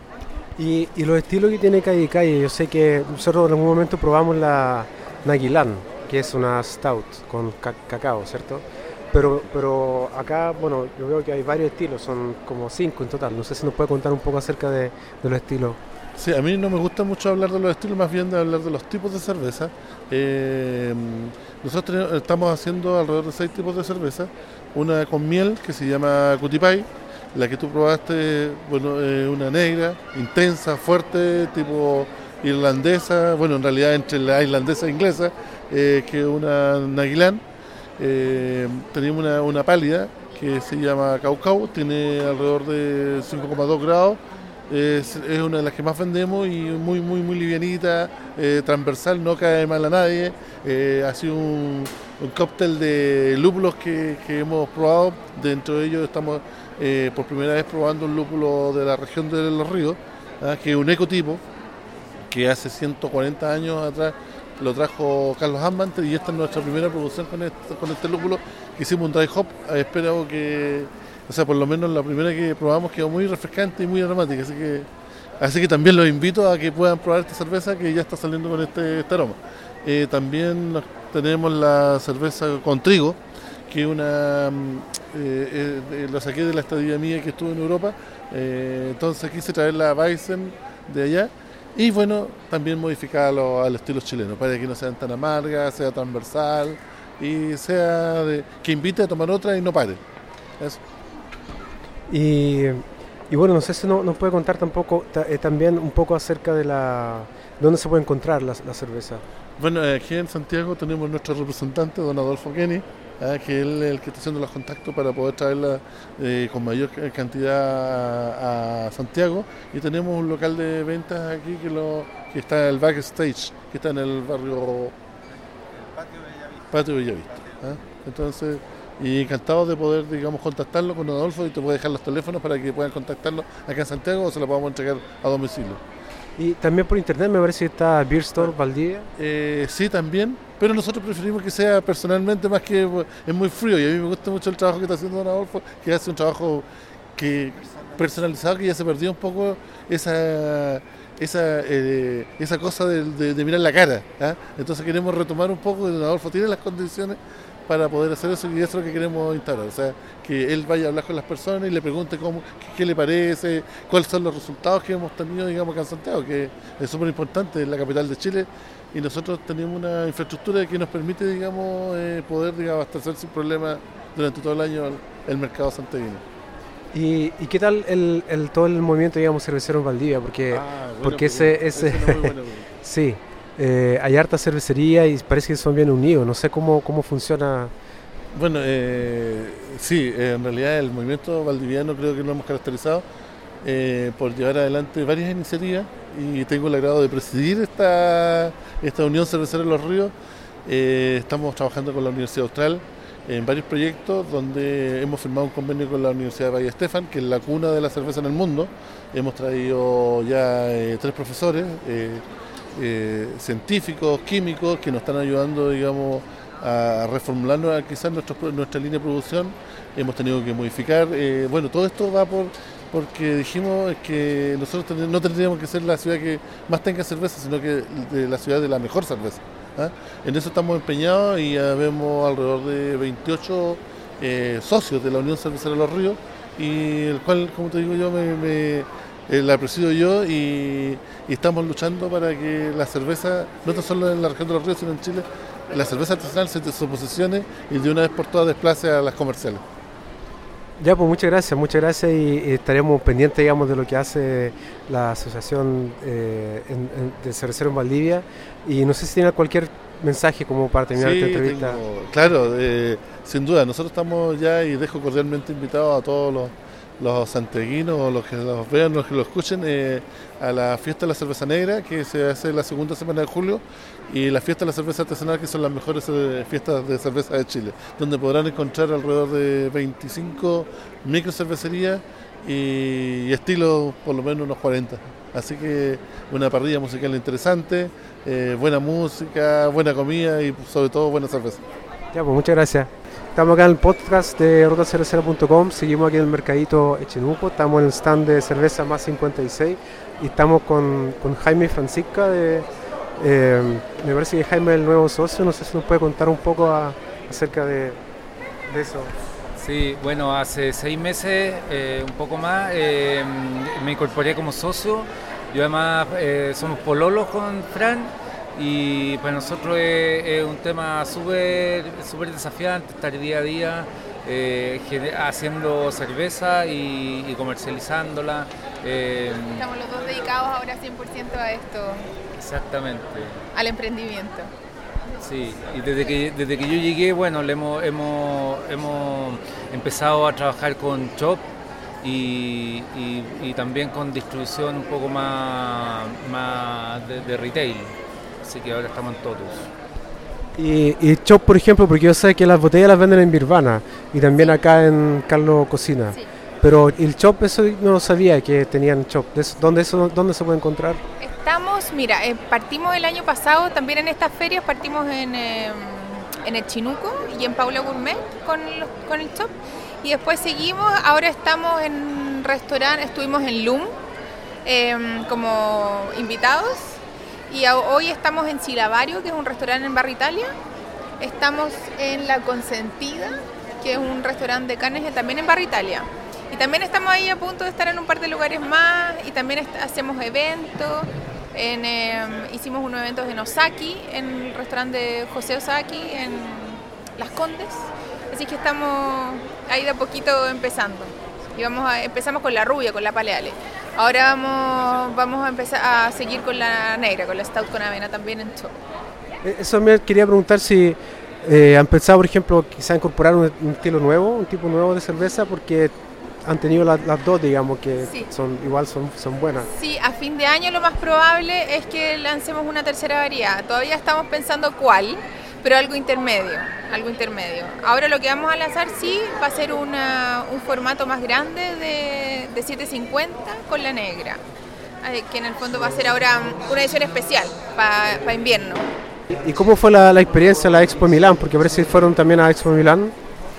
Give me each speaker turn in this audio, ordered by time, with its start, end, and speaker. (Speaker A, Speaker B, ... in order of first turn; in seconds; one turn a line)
Speaker A: 0.6-15.8
Speaker B: 16.2-37.4
Speaker B: 38.0-61.4
Speaker B: 62.3-74.9
Speaker B: 75.4-83.2
Speaker B: 83.7-100.0
Speaker A: 102.1-109.2
Speaker B: 109.6-124.9
Speaker B: 126.7-135.8
Speaker A: 136.4-139.1
Speaker B: 139.2-176.2
Speaker A: 176.9-187.7
Speaker B: 180.5-182.7
Speaker B: 188.3-193.0
Speaker B: 193.6-200.1
Speaker B: 200.7-212.2
Speaker B: 212.7-249.6
Speaker A: 250.8-261.8
Speaker B: 260.9-291.6
Speaker A: 292.1-308.0
Speaker A: 308.7-309.1
Speaker C: 309.6-329.7
Speaker D: 329.4-332.1
Speaker C: 332.4-333.4
Speaker D: 333.5-334.5
Speaker C: 335.2-341.4
Speaker C: 342.0-349.7
Speaker A: 350.6-361.0
Speaker D: 361.2-373.9
Speaker D: 374.6-380.5
Speaker D: 381.2-408.8
Speaker A: 409.4-419.7
Speaker D: 419.7-434.4
Speaker D: 435.0-438.9
Speaker A: 439.4-443.1